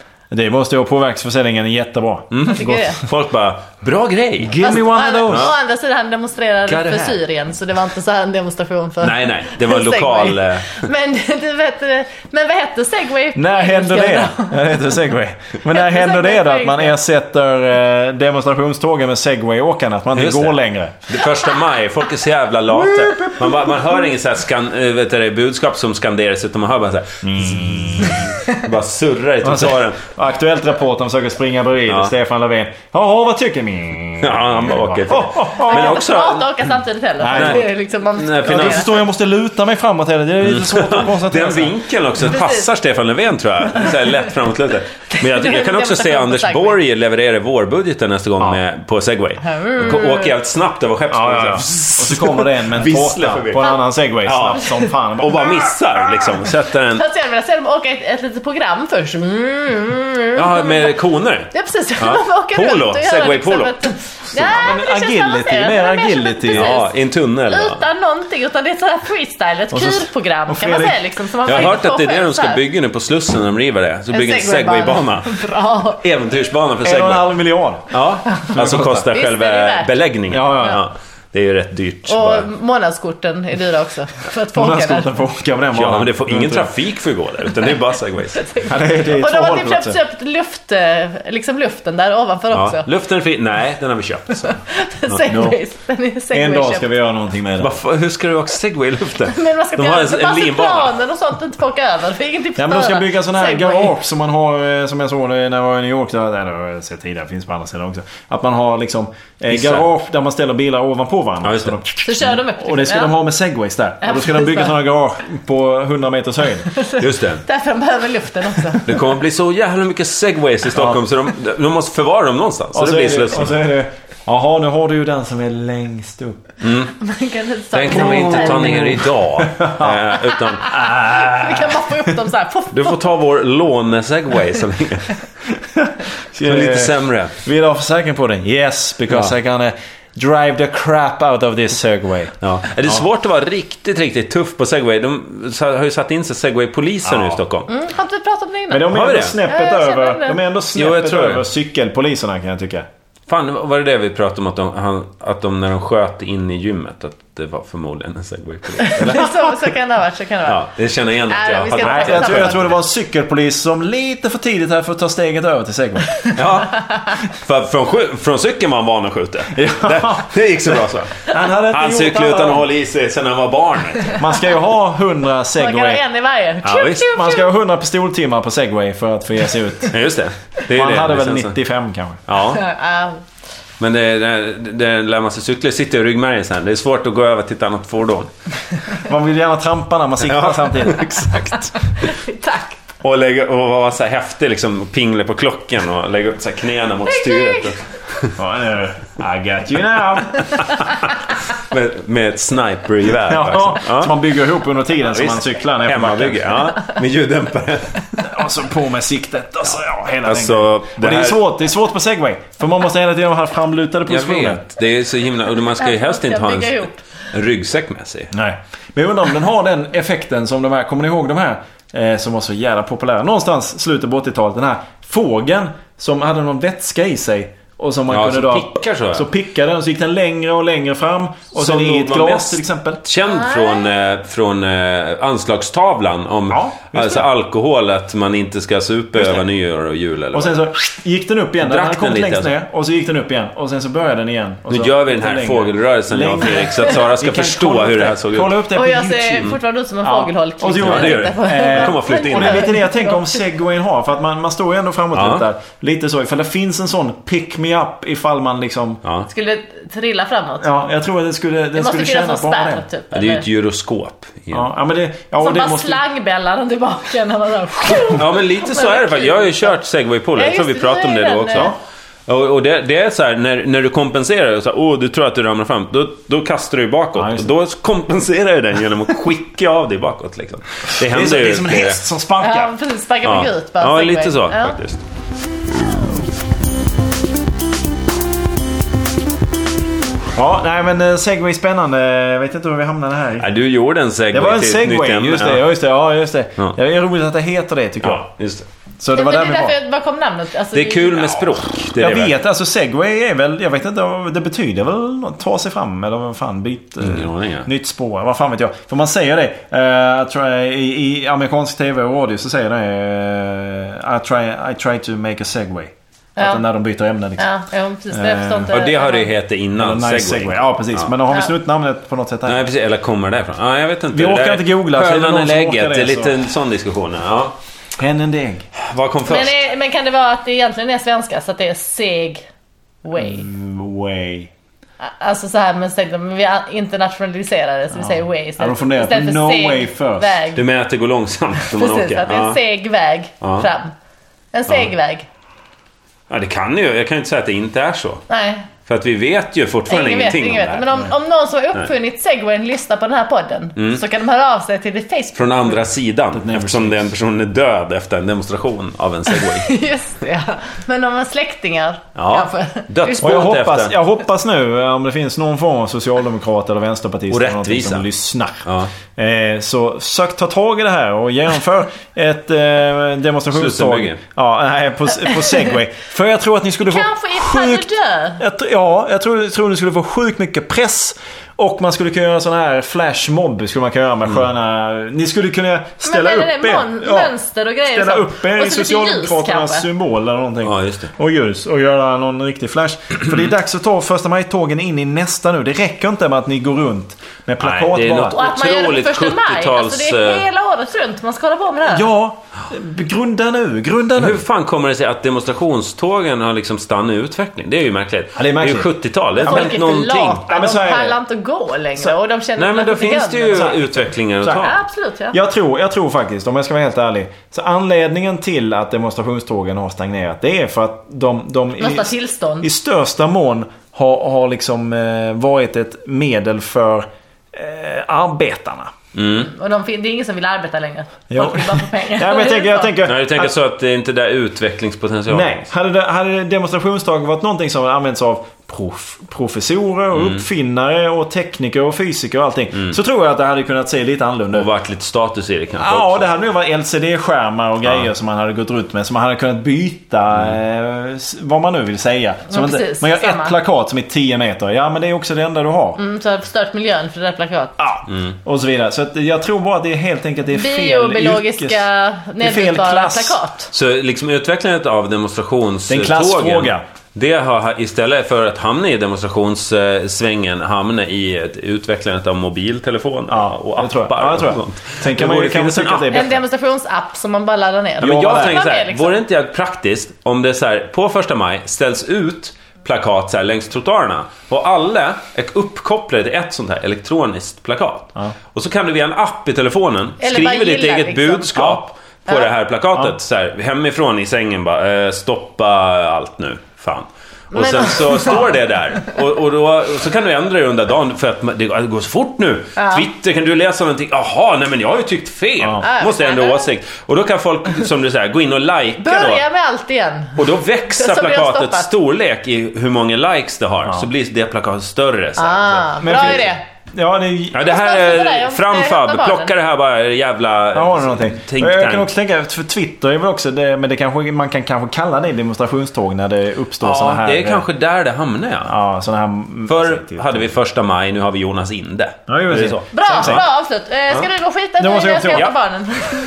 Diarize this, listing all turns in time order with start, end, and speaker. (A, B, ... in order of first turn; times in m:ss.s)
0:00.3-0:02.8 A
0:02.3-0:05.5 B
0:02.4-0:03.0 C
0:04.4-0:05.5 A
0:04.6-0:14.9 C
0:06.7-0:07.2 B
0:09.0-0:10.9 B
0:13.3-0:21.1 A
0:15.7-0:16.9 C
0:20.1-0:30.0 B
0:22.7-0:24.1 A
0:27.2-0:28.3 A
0:29.4-0:36.0 A
0:34.2-0:36.7 B
0:35.7-0:38.9 C
0:37.2-0:37.6 A
0:37.3-0:38.9 B
0:38.4-0:41.7 A
0:40.4-0:57.0 B
0:42.3-0:42.7 C
0:43.8-0:44.1 C
0:45.1-0:46.8 C
0:49.4-0:50.3 C
0:51.1-0:55.7 A
0:56.9-1:01.0 C
1:00.4-1:04.7 B
1:01.5-1:06.9 C
1:04.5-1:06.7 A
1:06.5-1:07.8 B
1:07.5-1:12.6 C
1:09.7-1:11.0 A
1:11.4-1:15.4 B
1:14.1-1:16.0 C
1:16.0-1:17.3 B
1:16.8-1:18.0 A
1:17.9-1:22.5 B
1:18.5-1:19.1 A
1:19.1-1:19.9 C
1:20.3-1:20.8 A
1:22.1-1:25.1 C
1:24.5-1:26.7 A
1:25.7-1:28.5 B
1:28.3-1:32.9 C
1:28.6-1:30.0 A
1:32.5-1:35.2 B
1:34.4-1:36.8 C
1:35.3-1:35.6 A
1:36.3-1:37.8 A
1:37.6-1:40.9 B
1:39.3-1:43.9 C
1:42.6-1:56.7 A
1:49.5-1:49.8 B
1:51.4-1:51.8 B
1:52.0-1:53.2 C
1:54.0-1:54.8 C
1:56.7-1:59.0 C
1:57.0-1:57.4 B
1:58.8-2:03.6 B
2:00.7-2:01.0 A
2:02.7-2:06.4 A
2:06.6-2:06.9 B
2:07.0-2:08.9 C
2:07.7-2:10.8 B
2:07.9-2:10.0 A
2:10.6-2:13.0 C
2:10.7-2:12.1 A
2:12.7-2:15.2 B
2:15.7-2:22.3 A
2:16.4-2:17.3 B
2:19.1-2:19.3 B
2:22.4-2:27.7 B
2:27.0-2:27.4 A
2:27.7-2:30.4 C
2:28.7-2:32.9 A
2:28.9-2:29.4 B
2:30.7-2:31.4 B
2:33.3-2:39.4 B
2:38.8-2:40.6 C
2:40.4-2:42.7 B
2:41.3-2:42.7 C
2:41.8-2:46.2 A
2:46.3-2:54.2 B
2:49.5-2:52.7 A
2:54.1-2:56.0 A
2:55.5-2:57.5 C
2:56.6-2:57.1 B
2:57.1-3:00.0 A
2:59.9-3:01.5 B
3:00.7-3:02.2 A
3:02.3-3:02.6 B
3:02.5-3:03.2 C
3:03.8-3:08.3 B
3:09.0-3:11.1 A
3:10.2-3:12.1 B
3:12.0-3:12.8 C
3:13.0-3:18.4 B
3:17.1-3:17.7 C
3:18.4-3:20.7 A
3:20.6-3:24.1 B
3:23.2-3:26.5 A
3:25.1-3:28.3 B
3:28.2-3:34.6 A
3:30.2-3:31.4 B
3:34.1-3:38.3 B
3:35.8-3:37.0 C
3:38.3-3:53.0 A
3:48.1-3:49.3 B
3:51.5-4:00.6 B
3:53.3-3:53.9 C
3:56.5-3:57.2 A
4:00.3-4:19.0 A
4:01.6-4:02.5 B
4:04.7-4:08.5 B
4:08.7-4:13.3 C
4:10.8-4:12.7 B
4:15.1-4:15.4 B
4:19.3-4:20.8 C
4:20.6-4:22.8 A
4:21.8-4:23.4 C
4:23.1-4:24.7 B
4:24.5-4:26.0 A
4:25.4-4:29.7 C
4:28.0-4:31.7 B
4:30.4-4:31.7 C
4:32.3-4:42.0 B
4:37.1-4:37.5 A
4:41.0-4:42.7 A
4:42.4-4:44.8 C
4:43.2-4:45.0 B
4:50.3-4:53.5 A
4:53.4-4:55.6 B
4:54.3-4:58.2 A
4:58.0-4:58.6 B
4:59.0-4:59.8 A
4:59.1-5:01.5 C
5:00.7-5:02.3 B
5:02.0-5:17.4 A
5:07.0-5:07.7 B
5:16.4-5:16.6 C
5:17.4-5:19.3 C
5:18.1-5:18.7 A
5:18.7-5:21.1 B
5:19.8-5:22.6 A
5:22.4-5:27.5 B
5:24.1-5:26.4 A
5:28.0-5:28.7 A
5:28.8-5:29.6 B
5:29.2-5:32.4 C
5:33.0-5:33.5 C
5:33.1-5:34.5 A
5:35.0-5:40.6 C
5:37.9-5:40.4 A
5:40.5-5:42.6 B
5:41.7-5:43.9 C
5:43.4-5:43.7 B
5:44.5-5:45.2 C
5:46.3-5:48.2 B
5:48.3-5:48.7 C
5:48.8-5:50.9 B
5:49.9-5:55.8 C
5:53.8-5:54.0 B
5:55.4-5:59.7 B
5:56.3-5:57.1 A
5:59.3-6:03.5 C
6:02.2-6:03.9 B
6:03.2-6:08.6 A
6:07.3-6:08.0 B
6:08.6-6:08.9 B
6:09.2-6:17.9 A
6:13.5-6:14.2 B
6:16.8-6:18.4 C
6:18.4-6:27.3 A
6:26.0-6:29.8 C
6:27.8-6:38.3 A
6:30.6-6:31.1 B
6:37.6-6:40.4 B
6:38.3-6:42.1 C
6:41.8-6:44.4 A
6:44.2-6:50.4 B
6:48.4-6:49.8 A
6:49.4-6:53.8 C
6:50.5-6:51.2 A
6:52.6-6:54.8 B
6:53.5-6:53.9 A
6:54.4-6:54.7 A
6:54.4-6:55.4 C
6:55.3-7:08.9 A
7:01.8-7:02.7 C
7:09.1-7:09.5 B
7:09.3-7:13.0 C
7:11.3-7:13.5 A
7:13.0-7:15.7 B
7:15.3-7:24.7 A
7:20.1-7:20.4 B
7:24.5-7:26.3 B
7:25.8-7:36.0 A
7:32.5-7:33.6 C
7:36.0-7:37.7 C
7:37.8-7:41.8 A
7:38.1-7:38.3 B
7:40.5-7:43.7 C
7:42.4-7:43.4 A
7:43.7-7:56.3 B
7:45.9-7:46.8 A
7:53.3-7:56.4 A
7:56.1-7:59.2 C
7:58.0-7:58.6 A
7:58.0-8:29.4 B
8:10.2-8:11.5 C
8:11.5-8:11.8 A
8:17.5-8:18.5 C
8:22.8-8:23.0 C
8:25.8-8:26.7 C
8:29.0-8:31.9 C
8:30.4-8:36.4 B
8:35.4-8:36.6 C
8:36.0-8:37.6 A
8:37.5-8:42.1 B
8:37.6-8:39.5 C
8:40.7-8:47.6 A
8:46.8-8:48.7 B
8:48.6-8:50.5 A
8:49.7-8:53.4 B
8:52.3-8:53.4 A
8:52.9-8:56.1 C
8:54.8-8:55.5 A